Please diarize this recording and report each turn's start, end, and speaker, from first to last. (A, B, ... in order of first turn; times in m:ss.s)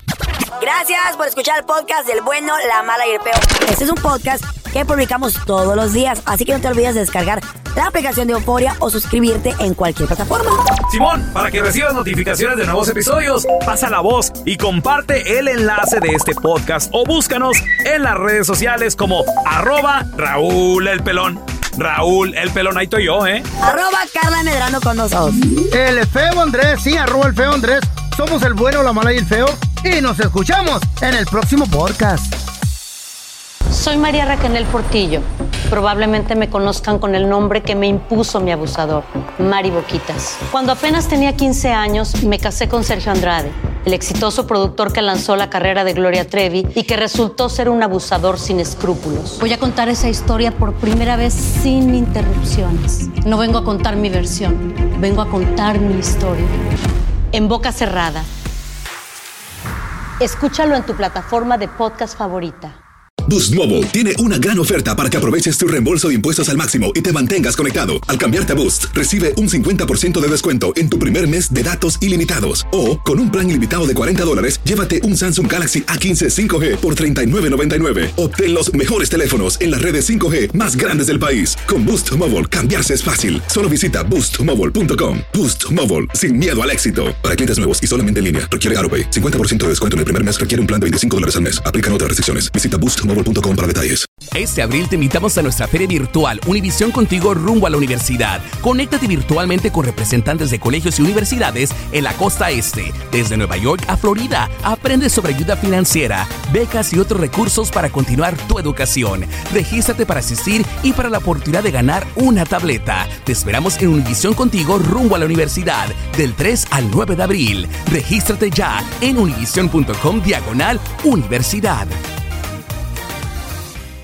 0:00.6-0:10.6 A
0:10.9-0:23.4 B
0:23.6-0:25.4 A
0:25.6-0:32.3 C
0:33.7-0:56.5 D
0:57.3-0:58.3 D
1:00.2-1:02.8 D
1:03.3-1:34.1 E
1:34.4-2:02.0 F